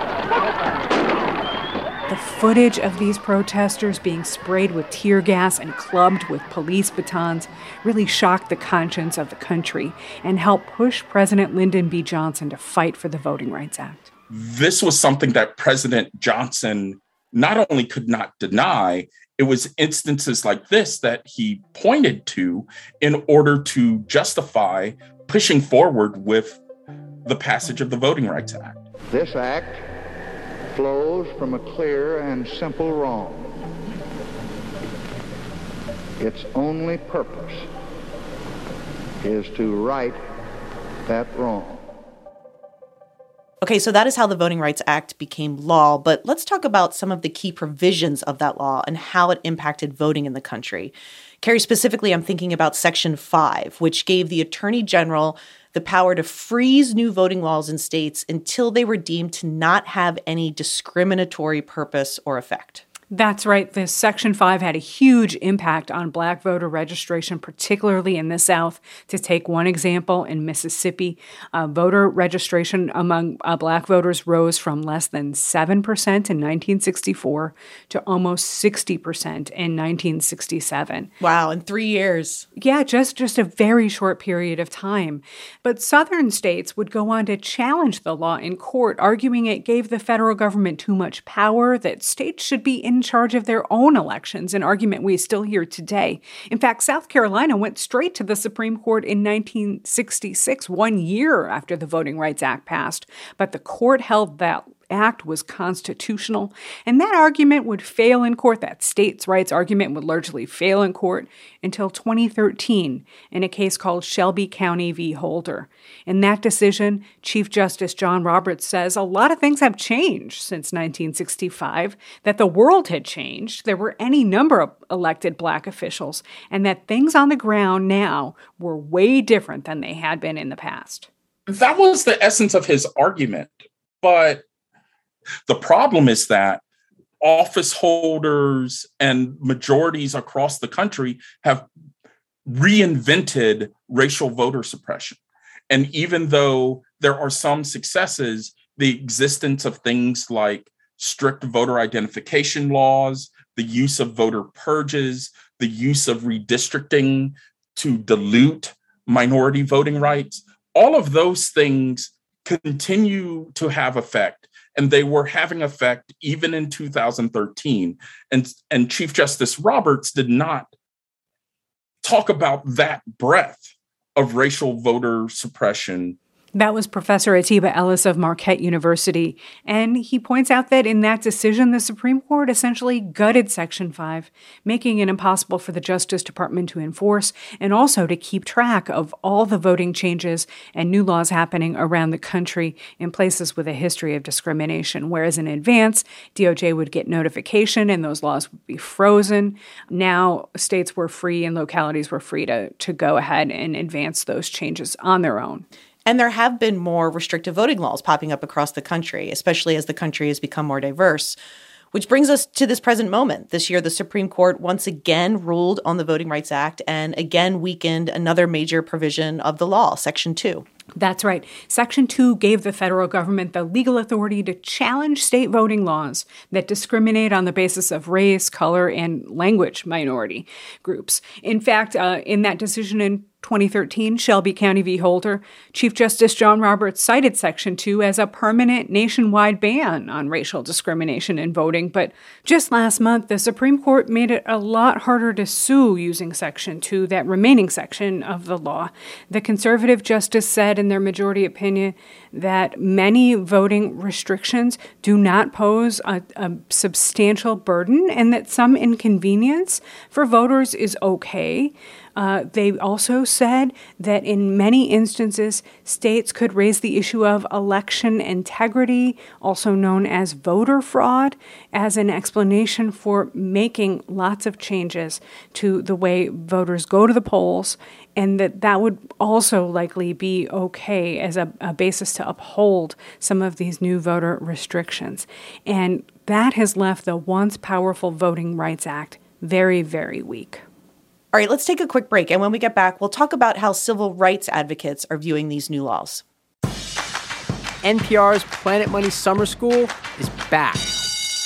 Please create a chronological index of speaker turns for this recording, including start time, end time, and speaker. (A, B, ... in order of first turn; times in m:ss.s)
0:02.1-0:14.1 A
0:14.3-0:26.6 B
0:27.2-0:28.8 B
0:29.1-0:29.8 C
0:30.7-0:33.5 C
0:36.2-0:37.6 C
0:39.2-0:40.2 C
0:41.1-0:41.8 C
0:43.6-1:02.8 D
1:03.1-1:21.1 A
1:21.2-1:22.5 D
1:22.6-2:11.1 A
2:11.5-2:14.4 B
2:15.5-2:16.6 B
2:17.2-2:21.6 B
2:22.5-2:50.7 B
2:52.0-2:56.2 B
2:56.5-3:25.6 A
3:26.0-3:31.4 D
3:31.9-3:40.6 D
3:41.0-4:50.6 A
4:51.3-4:56.2 D
4:57.8-5:00.9 E